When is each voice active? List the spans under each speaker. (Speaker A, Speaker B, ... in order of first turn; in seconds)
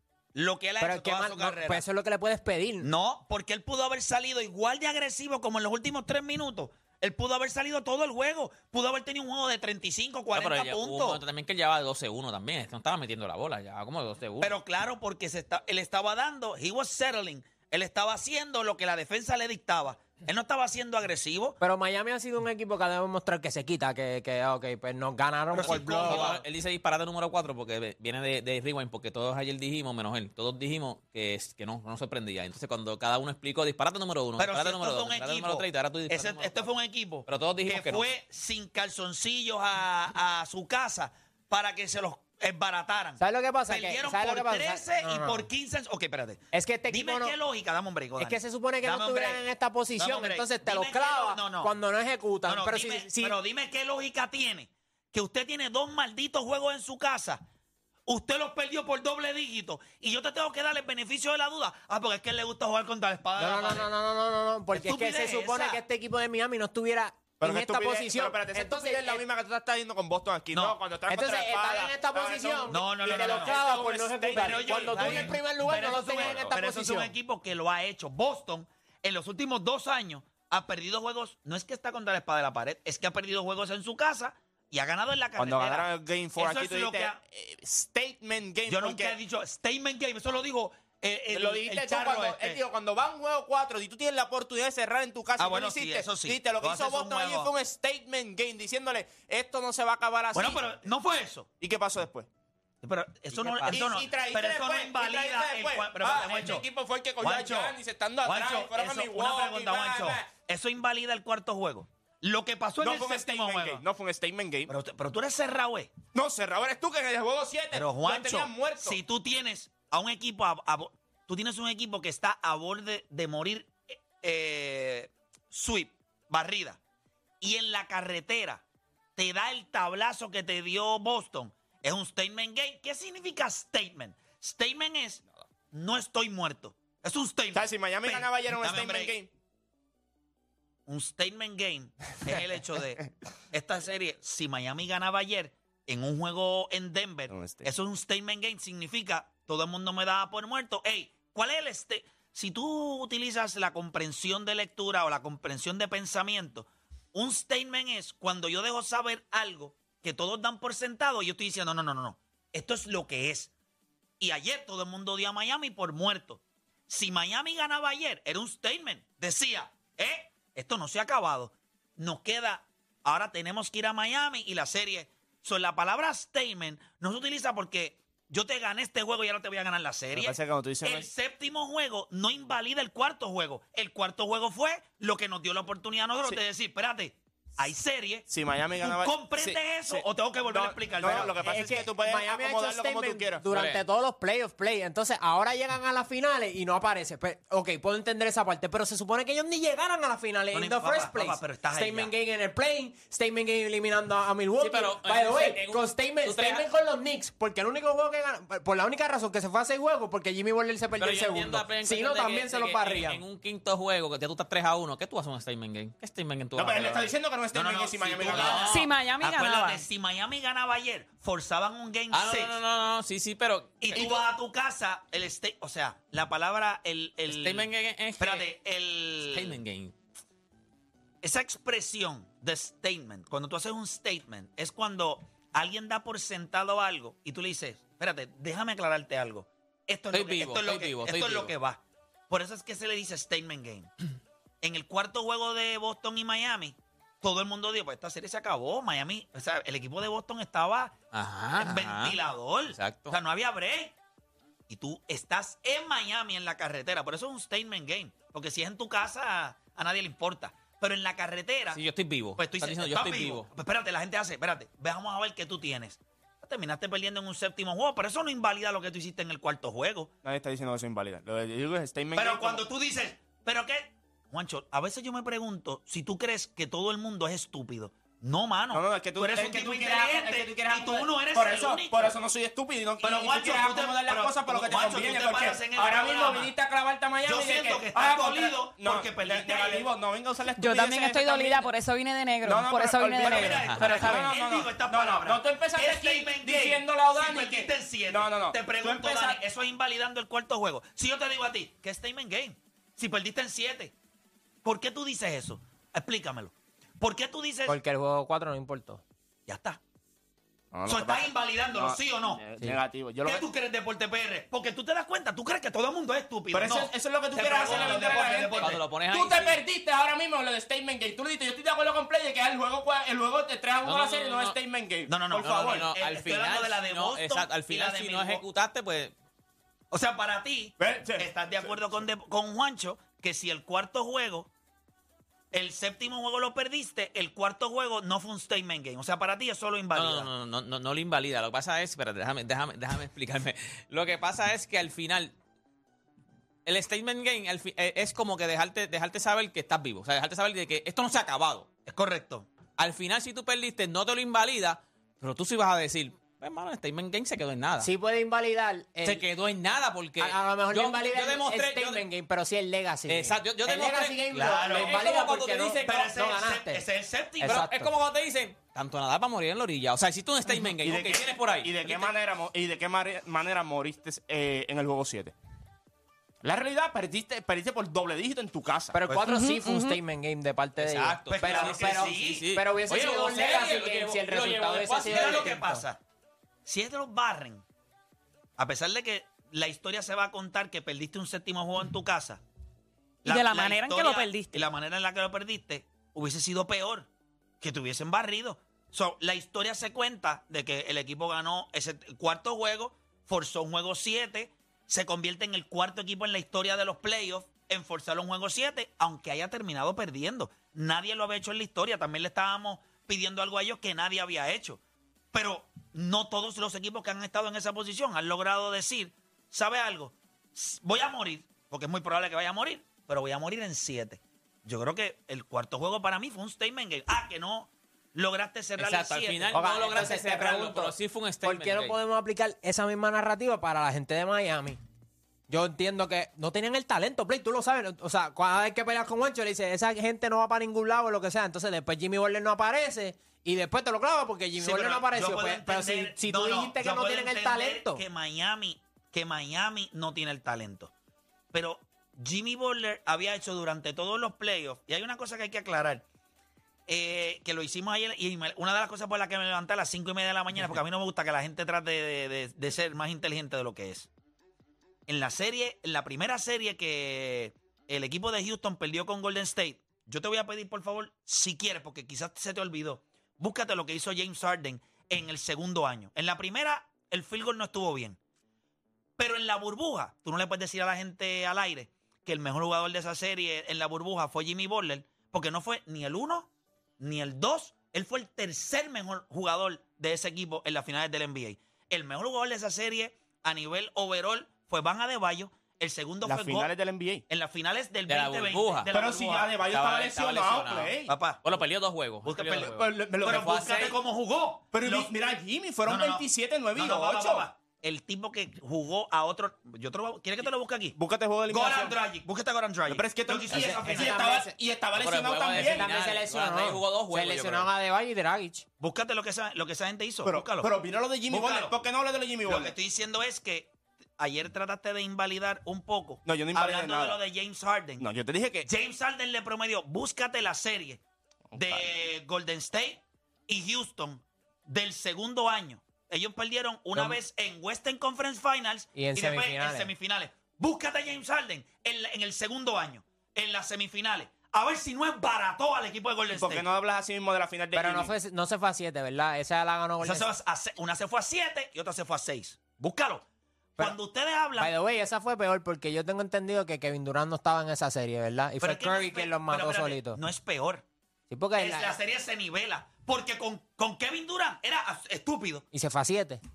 Speaker A: 0.3-1.8, 2.8-11.2, 14.4-21.6, 25.5-26.4, 34.4-49.5, 50.0-51.7, 52.5-57.4, 58.1-63.9, 64.7-65.8, 70.5-70.8, 72.7-73.6, 74.3-87.2, 88.7-92.6, 95.4-97.5, 100.3-101.5, 102.8-106.7, 107.2-113.8, 114.7-116.0, 117.7-126.8, 127.4-128.6, 129.2-139.1, 140.9-163.5, 164.2-188.3, 188.8-191.8, 200.5-202.1, 217.5-222.6, 223.8-227.7, 228.2-229.6, 231.2-243.9, 244.6-250.9, 251.6-253.9, 254.7-261.8, 262.4-270.1, 272.1-282.2, 283.0-286.5, 287.2-289.9, 293.2-303.9, 304.6-307.8, 309.5-309.8, 310.9-312.4, 313.2-318.9, 325.1-328.4, 329.9-334.5, 335.5-340.3, 351.9-352.5, 364.3-365.0, 365.9-367.7, 381.3-382.5, 385.1-386.0, 386.6-387.6, 388.6-392.4, 393.2-397.1, 397.6-414.8, 415.3-429.7, 444.6-450.9, 451.5-456.0, 456.9-464.1, 465.1-478.2, 479.2-486.5, 487.0-496.7, 497.3-499.6, 501.1-501.4, 502.3-505.1, 505.9-511.0, 511.5-514.4, 518.8-520.7, 521.3-521.8, 522.5-528.1, 528.6-531.0, 531.6-546.7, 550.0-553.2, 553.8-554.7, 558.6-560.8, 561.6-565.6
Speaker B: 0.8-2.9, 21.6-26.4, 43.2-45.5, 46.5-47.4, 48.2-53.4, 63.4-69.2, 71.1-77.1, 191.0-213.2, 307.7-309.0, 357.8-359.2, 360.2-366.9, 367.4-367.9, 378.9-385.8, 429.5-434.8, 435.5-448.0, 513.5-514.5, 515.5-518.6, 539.0-539.9, 547.7-550.3, 554.6-560.2, 561.3-562.0, 565.7-566.4
Speaker C: 10.3-14.5, 25.6-36.7, 37.3-38.1, 103.3-103.8, 193.5-193.8, 204.6-206.7, 211.0-217.1, 218.2-218.9, 222.1-224.1, 227.3-228.5, 229.2-229.9, 240.1-241.5, 251.1-252.2, 252.7-253.2, 261.7-263.5, 293.6-294.0, 317.5-319.6, 323.8-324.6, 325.4-329.1, 339.9-345.3, 346.7-351.7, 352.8-357.9, 359.0-362.0, 363.1-366.1, 367.4-372.1, 380.8-385.6, 428.8-432.0, 498.1-498.9, 499.7-503.9, 515.0-517.7
Speaker D: 67.4-75.4, 76.2-76.5, 85.4-89.2, 91.3-100.7, 101.6-102.3, 103.7-110.3, 112.8-114.7, 116.1-119.0, 137.5-139.3, 147.3-147.7, 180.1-181.1, 188.3-193.4, 216.6-218.7, 270.2-272.6, 278.7-291.7, 292.4-299.4, 310.7-313.5, 316.5-325.9, 330.8-332.0, 370.8-375.3, 376.4-379.0, 496.2-497.2, 498.9-501.1, 502.6-503.9, 504.7-507.5, 510.9-512.0, 512.9-515.9, 520.2-522.7, 526.2-527.2, 528.0-528.7, 531.5-532.0, 546.3-548.1
Speaker E: 218.6-219.8, 290.5-294.4, 379.3-380.0, 393.2-394.7